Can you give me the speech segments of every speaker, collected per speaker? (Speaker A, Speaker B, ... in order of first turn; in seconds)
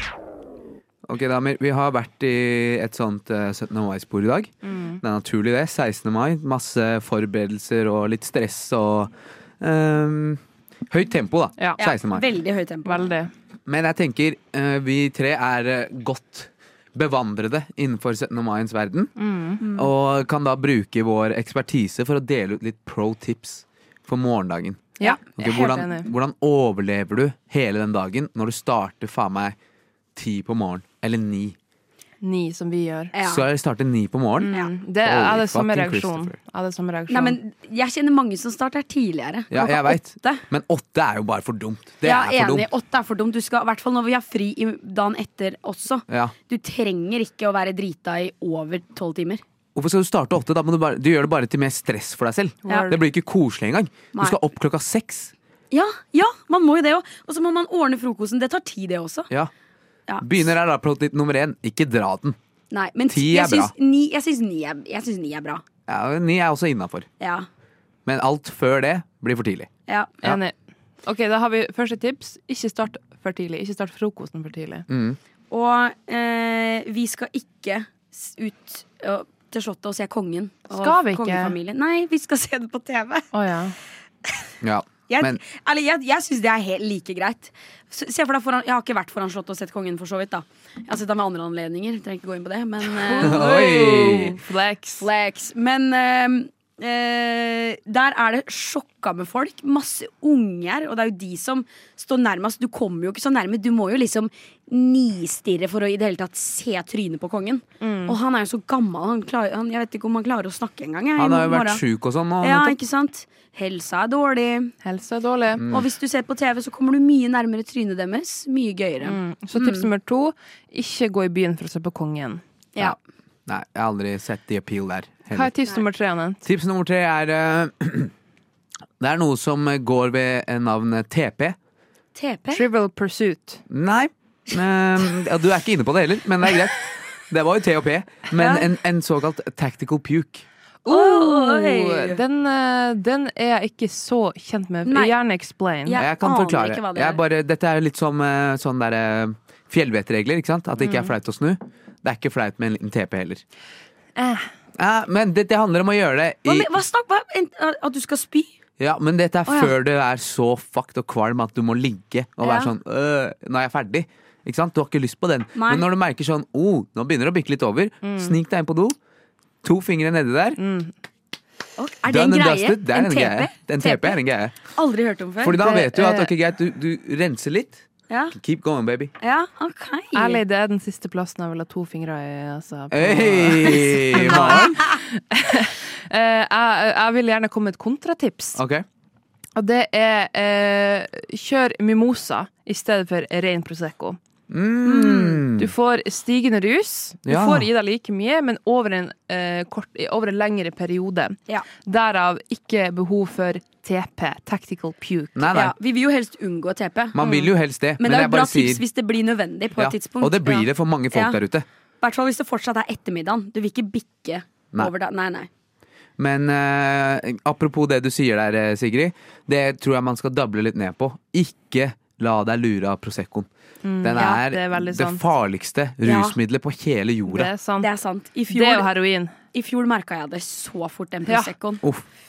Speaker A: 1.1-12.2, 13.7-19.1, 19.7-29.6, 30.2-31.6, 33.2-36.4, 39.5-42.7, 46.1-46.3, 49.8-55.3, 60.2-62.4, 63.1-63.7, 65.9-67.1, 68.1-69.7, 74.9-75.2, 84.6-85.4, 93.2-94.3, 111.2-112.8, 115.6-115.9, 123.5-125.5, 126.4-128.1, 129.0-131.6, 133.7-140.5, 146.0-153.4, 154.8-156.8, 158.8-169.0, 169.6-170.6, 172.1-174.6, 175.4-179.1, 182.9-184.8, 188.6-188.8, 194.5-195.7, 197.2-197.7, 205.4-205.7, 207.1-208.8, 209.8-211.7, 216.2-223.5, 224.0-227.5
Speaker B: 4.6-5.0, 12.8-13.3, 19.2-19.6, 25.0-26.1, 32.2-33.1, 34.4-37.4, 52.6-53.0, 70.2-74.8, 80.7-81.5, 83.3-83.8, 93.0-95.1, 107.8-108.2, 114.8-115.6, 119.0-122.4, 125.3-126.4, 132.5-133.6, 140.8-146.0, 150.8-151.1, 154.2-154.5, 168.0-168.4, 170.6-170.9, 176.0-176.2, 180.1-188.6, 189.6-194.2, 195.6-205.4, 207.2-207.5, 223.8-225.2, 227.3-227.9, 228.5-229.3
Speaker C: 11.8-13.1, 19.6-19.9, 33.1-33.5, 37.1-40.4, 42.0-49.4, 55.7-59.3, 60.1-60.4, 62.7-65.6, 67.2-67.5, 69.9-70.1, 75.5-83.3, 85.1-94.2, 95.0-111.8, 112.4-114.7, 115.7-119.9, 132.2-132.7, 138.3-138.7, 140.9-142.2, 144.9-145.2, 145.8-147.2, 156.5-158.5, 159.5-159.7, 162.4-162.7, 165.6-165.9, 171.8-174.2, 174.8-176.0, 178.1-178.3, 179.2-180.4, 194.8-195.4, 205.5-207.2, 208.0-210.4, 211.1-211.4, 212.0-215.5, 226.0-226.4, 227.8-228.9, 229.5-231.8